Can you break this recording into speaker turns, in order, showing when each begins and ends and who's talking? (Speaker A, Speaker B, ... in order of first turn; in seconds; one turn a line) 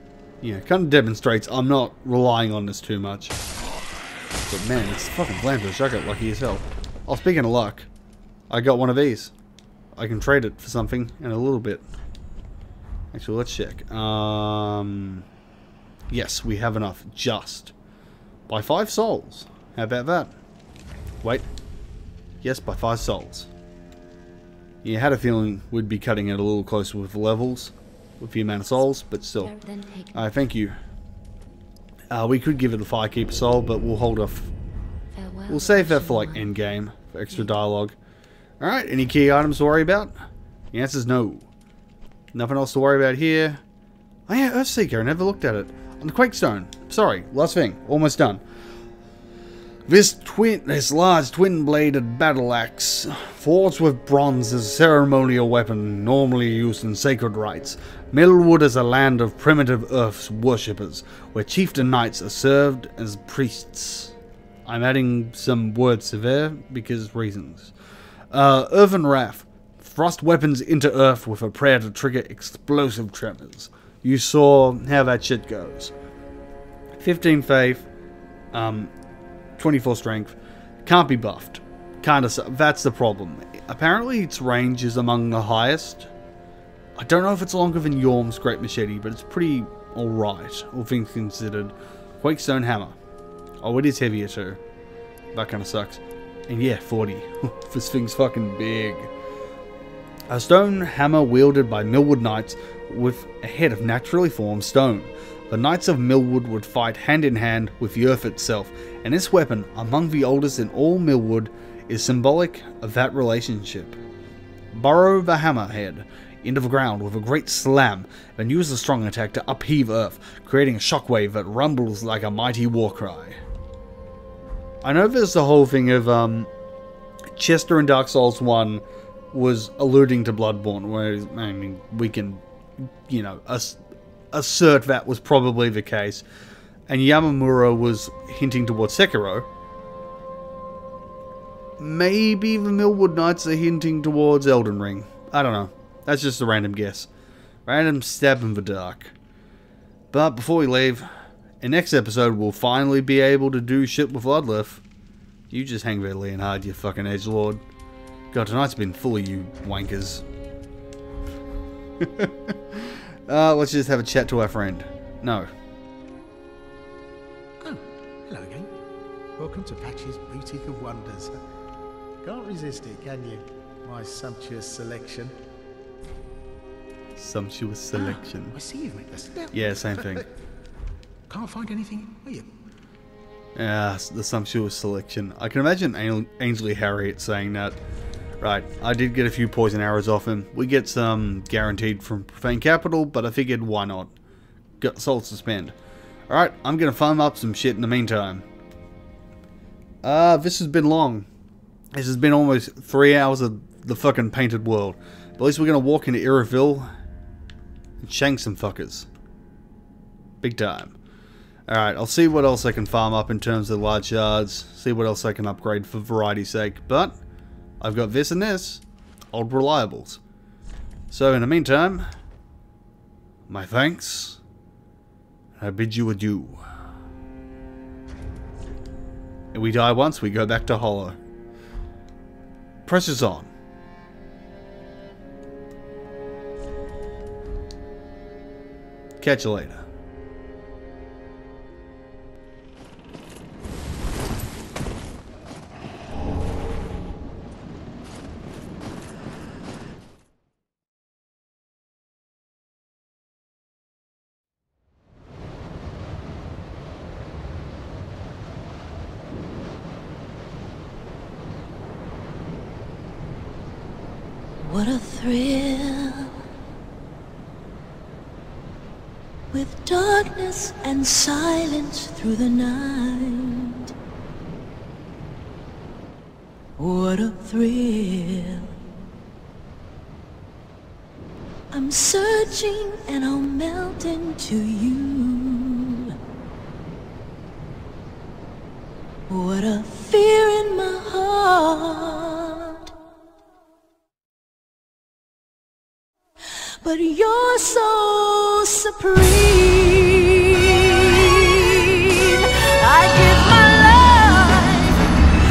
Speaker A: 0.4-3.4
Speaker A: 4.5-7.9
Speaker A: 8.5-9.3
Speaker A: 10.0-11.9
Speaker A: 13.1-15.2
Speaker A: 16.1-17.7
Speaker A: 18.5-20.3
Speaker A: 22.4-23.5
Speaker A: 24.8-29.5
Speaker B: 29.4-30.3
Speaker A: 30.1-30.8
Speaker A: 32.1-34.5
Speaker B: 35.1-36.5
Speaker A: 35.5-38.0
Speaker A: 38.6-40.1
Speaker A: 40.7-41.5
Speaker A: 42.3-43.6
Speaker A: 44.3-48.4
Speaker A: 49.9-64.1
Speaker A: 64.7-67.7
Speaker A: 68.3-75.9
Speaker A: 77.0-77.9
Speaker A: 78.5-78.9
Speaker A: 79.6-86.1
Speaker A: 87.0-93.0
Speaker A: 93.6-94.6
Speaker A: 95.3-99.1
Speaker A: 100.3-114.0
Speaker A: 114.7-123.4
Speaker A: 124.8-126.5
Speaker A: 127.3-133.8
Speaker A: 134.3-136.2
Speaker A: 136.9-139.5
Speaker A: 141.8-147.1
Speaker A: 147.7-149.1
Speaker A: 150.1-151.1
Speaker A: 151.6-154.8
Speaker A: 155.5-157.6
Speaker A: 158.3-160.2
Speaker A: 162.0-165.5
Speaker C: 167.6-168.7
Speaker C: 169.4-171.4
Speaker C: 172.2-175.3
Speaker A: 177.2-178.6
Speaker C: 177.9-180.3
Speaker A: 179.5-180.2
Speaker C: 181.3-182.5
Speaker A: 183.6-187.8
Speaker A: 188.4-194.1
Speaker A: 194.8-195.8
Speaker A: 196.3-198.4
Speaker A: 200.0-201.3
Speaker A: 201.9-206.9
Speaker A: 208.0-209.1
Speaker A: 210.4-210.9
Speaker A: 211.7-217.2
Speaker A: 217.8-220.2
Speaker A: 221.1-222.1
Speaker A: 223.5-224.4
Speaker A: 225.6-226.6
Speaker A: 229.5-231.2
Speaker A: 232.9-233.5
Speaker A: 239.2-239.8
Speaker D: 264.6-266.3
Speaker D: 269.5-273.9
Speaker D: 276.8-278.8
Speaker D: 281.7-286.1
Speaker D: 289.3-292.9
Speaker D: 296.8-305.1